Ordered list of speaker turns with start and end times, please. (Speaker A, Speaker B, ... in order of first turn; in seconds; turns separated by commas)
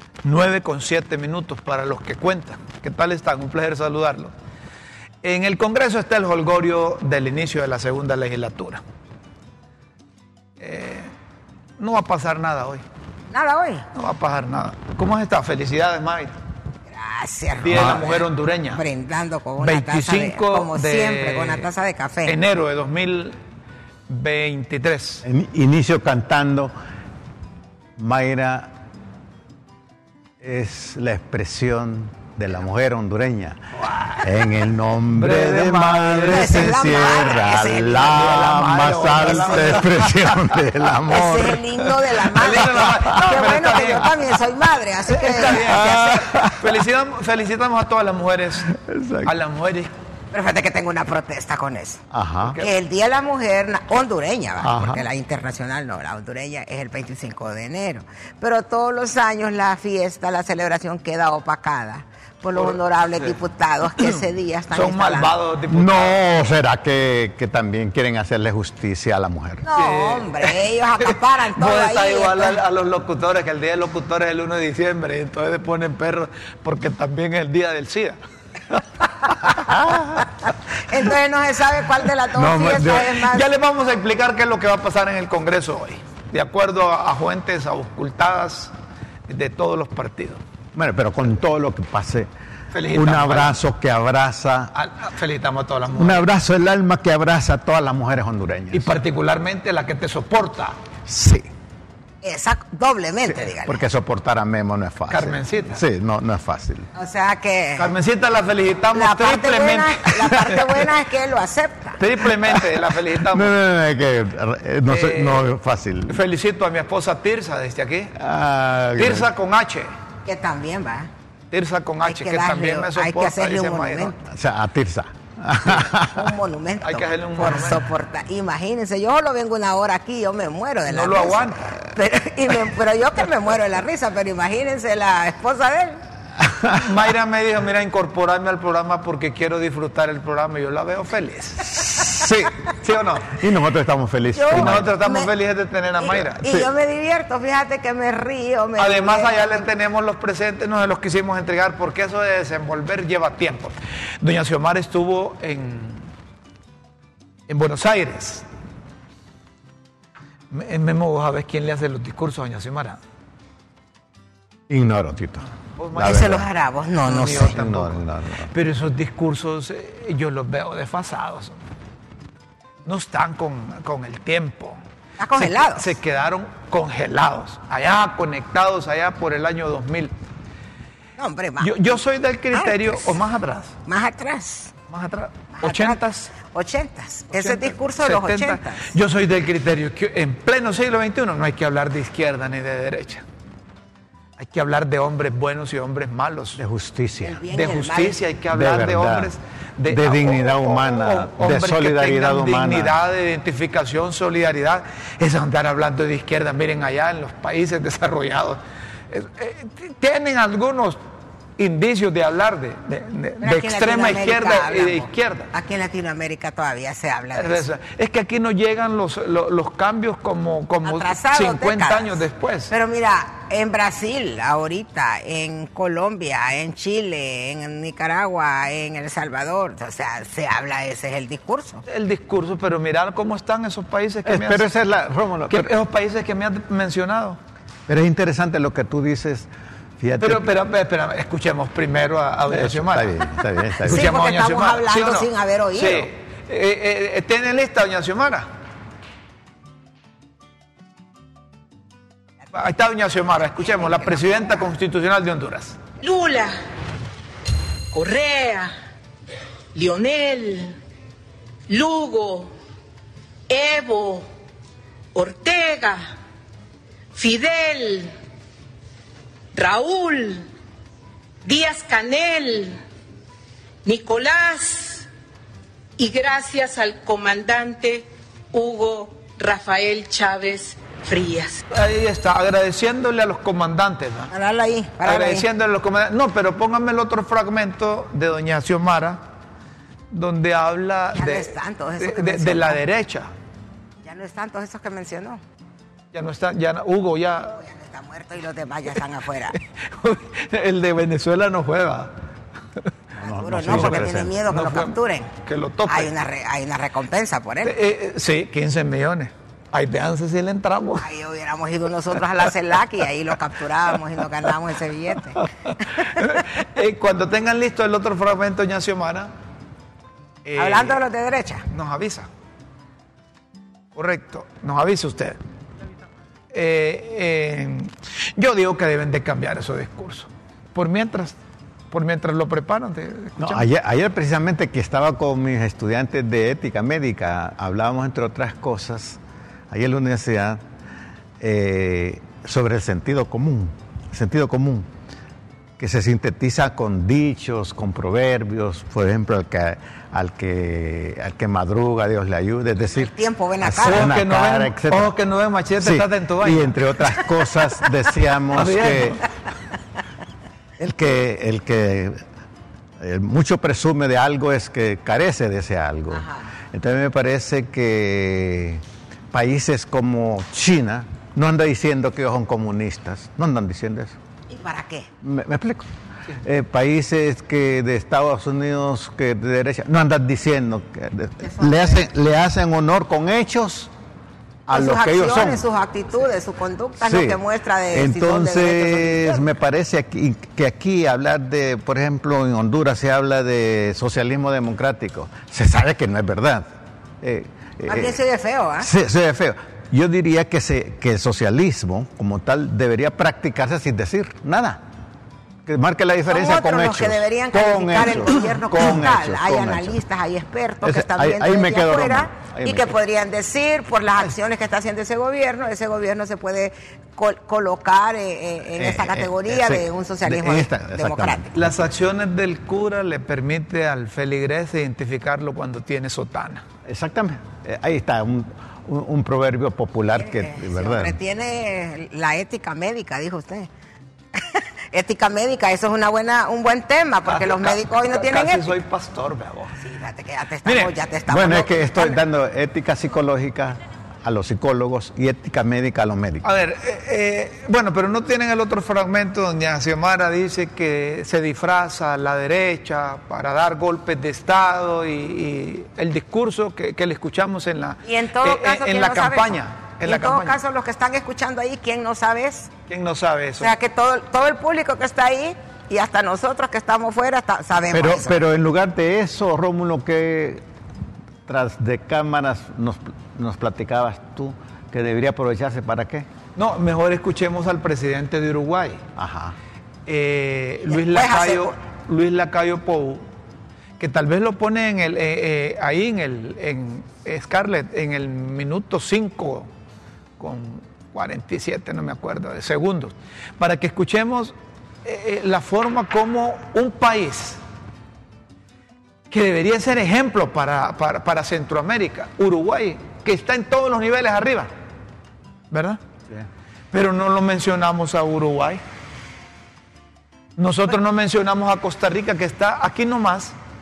Speaker A: 0.2-4.3, Speaker A: 5.2-8.8, Speaker A: 10.6-11.1, Speaker A: 11.8-12.8, Speaker B: 13.3-13.9, Speaker A: 13.9-16.3, Speaker B: 16.9-22.4, Speaker A: 17.6-18.8, Speaker A: 19.6-21.7, Speaker A: 22.2-23.4, Speaker A: 24.1-25.2, Speaker C: 25.2-26.7, Speaker C: 28.0-28.7, Speaker C: 30.4-33.6, Speaker A: 33.9-34.2, Speaker C: 34.2-41.9, Speaker A: 35.1-37.0, Speaker B: 36.3-38.4, Speaker A: 37.9-40.4, Speaker B: 39.1-39.8, Speaker B: 41.1-46.4, Speaker A: 42.3-44.1, Speaker A: 45.1-49.9, Speaker C: 45.6-46.8, Speaker C: 48.7-49.3, Speaker B: 50.3-52.0, Speaker C: 52.1-52.6, Speaker A: 52.4-52.7, Speaker B: 52.6-65.3, Speaker C: 54.6-55.0, Speaker A: 62.5-63.4, Speaker A: 64.0-66.2, Speaker C: 65.7-69.6, Speaker B: 69.6-72.6, Speaker A: 69.7-70.6, Speaker A: 71.1-78.2, Speaker C: 79.5-80.3, Speaker B: 80.5-83.5, Speaker C: 82.3-83.2, Speaker A: 83.2-88.7, Speaker A: 89.3-90.4, Speaker C: 90.7-92.3, Speaker A: 92.7-93.6, Speaker C: 92.9-94.7, Speaker A: 94.7-96.3, Speaker C: 95.9-98.9, Speaker A: 98.7-100.8, Speaker C: 101.1-101.5, Speaker B: 102.2-103.8, Speaker C: 103.3-106.9, Speaker A: 105.1-105.8, Speaker B: 106.9-107.9, Speaker A: 107.8-110.6, Speaker B: 108.9-112.0, Speaker A: 112.0-113.5, Speaker C: 112.5-112.7, Speaker C: 113.3-116.2, Speaker A: 114.9-115.5, Speaker A: 116.1-118.1, Speaker C: 118.1-119.3, Speaker A: 119.0-119.9, Speaker B: 120.2-121.1, Speaker A: 121.5-124.1, Speaker B: 122.0-124.2, Speaker C: 124.3-126.3, Speaker B: 126.0-136.0, Speaker A: 126.8-127.8, Speaker A: 130.8-131.7, Speaker C: 136.4-136.8, Speaker A: 136.7-143.4, Speaker C: 141.9-142.6, Speaker C: 143.3-144.9, Speaker B: 144.3-145.3, Speaker A: 144.5-146.4, Speaker B: 146.0-149.7, Speaker A: 148.8-156.1, Speaker A: 157.5-158.4, Speaker A: 160.5-163.0, Speaker C: 164.7-166.5, Speaker A: 165.8-166.4, Speaker B: 166.0-167.6, Speaker A: 167.1-171.6, Speaker C: 167.2-168.5, Speaker A: 172.8-174.8, Speaker B: 175.2-175.9, Speaker A: 175.3-180.1, Speaker B: 181.2-181.9, Speaker A: 181.6-183.8, Speaker B: 182.5-183.2, Speaker B: 183.8-184.7, Speaker A: 184.9-186.3, Speaker B: 185.5-188.9, Speaker A: 187.3-193.2, Speaker A: 194.4-196.6, Speaker C: 196.6-197.4, Speaker B: 197.2-198.2, Speaker A: 197.5-211.0, Speaker C: 198.5-199.3, Speaker C: 199.9-202.9, Speaker A: 211.6-215.5, Speaker B: 213.4-217.7, Speaker A: 217.3-222.7, Speaker B: 220.8-231.8, Speaker A: 231.9-234.6, Speaker C: 234.2-235.7, Speaker A: 235.5-237.4, Speaker C: 237.9-240.5, Speaker A: 240.2-243.2, Speaker C: 242.5-244.1, Speaker B: 243.8-246.1, Speaker A: 243.8-248.5, Speaker A: 252.5-255.8, Speaker B: 253.6-254.6, Speaker D: 256.0-256.5, Speaker D: 257.9-258.7, Speaker D: 259.7-260.8, Speaker D: 261.7-262.5, Speaker D: 263.5-264.3, Speaker D: 265.1-266.1, Speaker D: 267.1-268.1, Speaker D: 269.5-270.5, Speaker D: 271.4-272.8, Speaker D: 273.8-275.1, Speaker D: 276.0-281.6, Speaker A: 281.7-284.3, Speaker B: 284.3-285.4, Speaker A: 285.0-289.2, Speaker A: 290.1-293.3, Speaker B: 291.1-292.8, Speaker B: 294.0-295.4, Speaker A: 296.1-297.6, Speaker B: 297.5-299.6, Speaker A: 299.6-302.1, Speaker C: 303.2-304.3, Speaker B: 303.2-305.3, Speaker A: 303.7-306.1, Speaker B: 305.9-307.7, Speaker A: 307.6-311.0, Speaker B: 311.0-316.2, Speaker A: 315.6-319.3, Speaker A: 320.4-321.0, Speaker B: 320.6-321.7, Speaker A: 321.7-322.3, Speaker A: 323.9-325.4, Speaker A: 326.5-331.4, Speaker A: 331.9-333.7, Speaker C: 333.4-340.6, Speaker C: 341.4-344.9, Speaker C: 345.8-355.1, Speaker B: 352.9-354.1, Speaker A: 353.8-357.1, Speaker C: 355.8-359.2, Speaker A: 358.5-359.2, Speaker C: 360.8-362.2, Speaker C: 363.0-374.2, Speaker B: 366.1-366.5, Speaker B: 374.5-375.1, Speaker C: 375.2-383.9, Speaker B: 381.4-382.0, Speaker C: 384.7-385.6, Speaker B: 384.7-389.5, Speaker C: 387.0-387.4, Speaker C: 387.9-396.7, Speaker C: 397.2-398.1, Speaker B: 397.9-398.9, Speaker C: 398.8-404.8, Speaker C: 405.6-410.0, Speaker B: 406.3-421.5, Speaker C: 410.8-412.9, Speaker C: 418.8-421.7, Speaker A: 421.5-426.6, Speaker C: 426.9-431.1, Speaker B: 430.1-433.7, Speaker B: 434.3-438.7, Speaker A: 437.3-439.8, Speaker B: 439.8-442.2, Speaker A: 440.6-440.9, Speaker C: 441.3-446.4, Speaker A: 446.4-460.6, Speaker B: 458.0-462.7, Speaker A: 462.9-463.7, Speaker B: 463.6-468.4, Speaker C: 467.9-470.6, Speaker C: 471.4-476.3, Speaker A: 476.6-479.0, Speaker C: 479.1-479.6, Speaker A: 480.1-483.2, Speaker B: 480.9-481.7, Speaker A: 484.0-489.7, Speaker A: 490.4-497.6, Speaker A: 499.3-504.7, Speaker A: 505.7-506.0, Speaker A: 506.9-508.8, Speaker A: 510.6-513.5